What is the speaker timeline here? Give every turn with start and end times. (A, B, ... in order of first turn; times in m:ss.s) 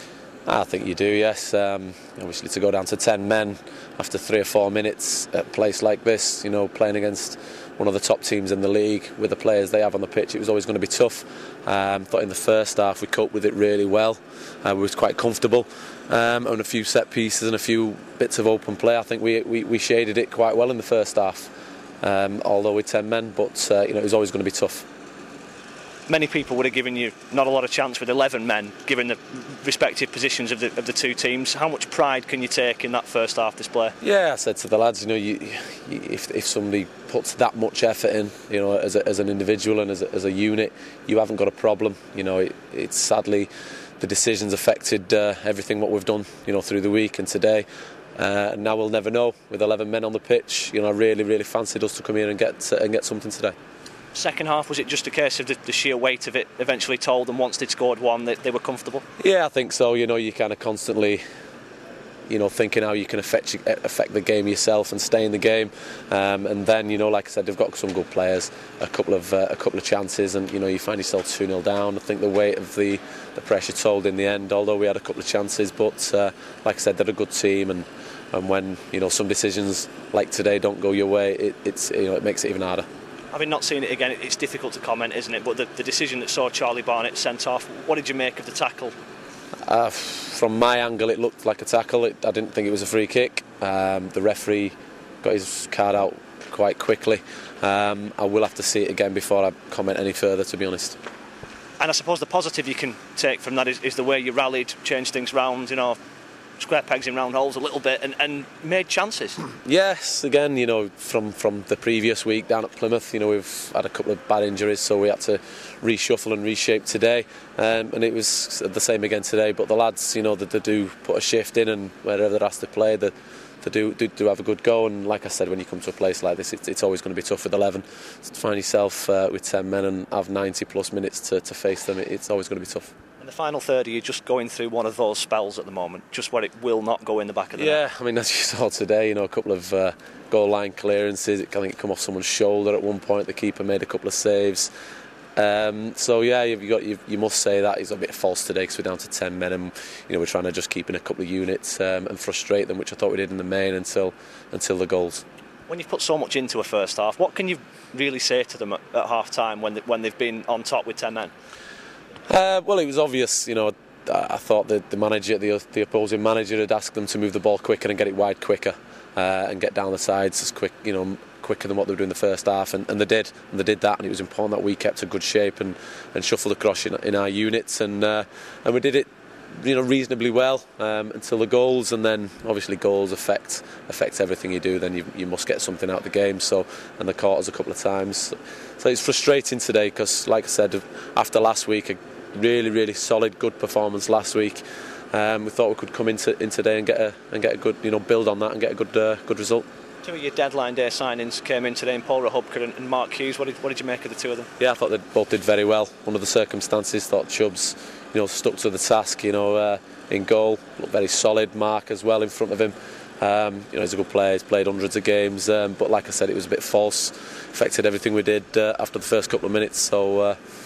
0:00.5-0:21.5 A
0:22.0-0:24.9 A
0:26.1-0:34.0 B
0:34.0-0:43.5 A
0:44.0-0:47.7 A
0:48.2-0:53.5 A
0:54.1-0:59.0 B
0:59.2-1:01.2 A
1:02.3-1:22.9 A
1:23.3-1:28.9 B
1:29.7-1:41.0 A
1:41.8-1:46.0 B
1:46.6-1:49.4 B
1:49.6-2:12.9 A
2:13.2-2:17.8 B
2:17.6-2:24.7 A
2:25.4-2:35.2 A
2:35.7-2:41.3 B
2:42.3-2:59.1 A
2:59.6-3:14.6 A
3:15.1-3:19.7 A
3:20.0-3:24.5 B
3:24.6-3:40.4 A